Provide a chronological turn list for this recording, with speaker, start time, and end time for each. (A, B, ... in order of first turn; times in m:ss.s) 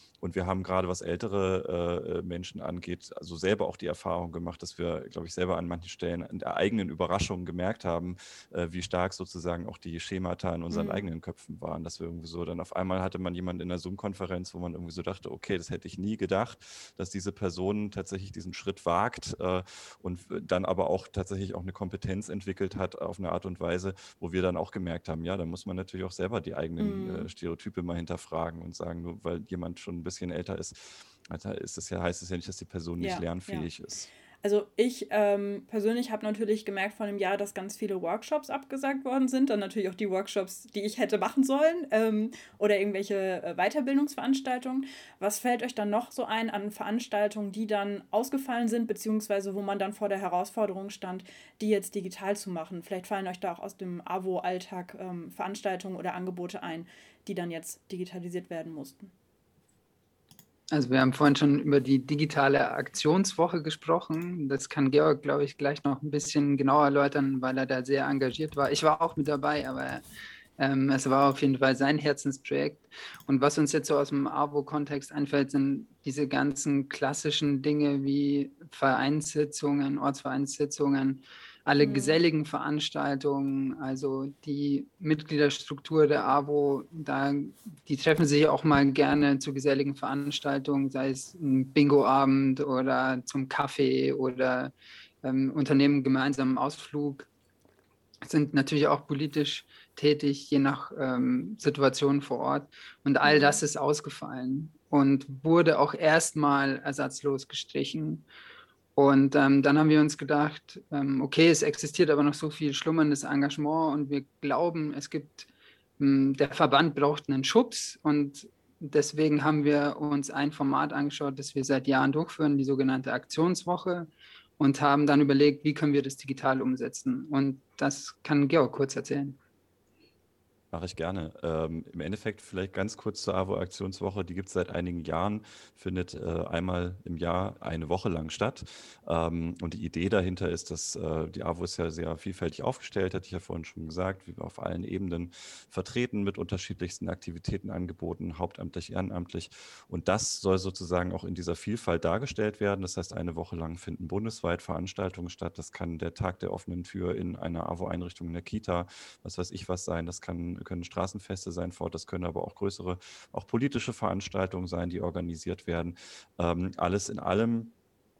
0:00.2-0:34.1 A
0:10.7-0:11.1 B
0:26.8-0:27.3 B
0:33.0-0:33.7 B
0:34.4-0:59.1 B
1:00.7-1:10.0 C
1:10.6-1:34.7 C
1:21.8-1:22.2 B
1:35.2-1:37.3 C
1:38.2-1:48.3 C
1:43.2-1:43.6 B
1:49.0-1:55.5 C
1:56.0-2:09.4 C
2:10.7-2:47.7 A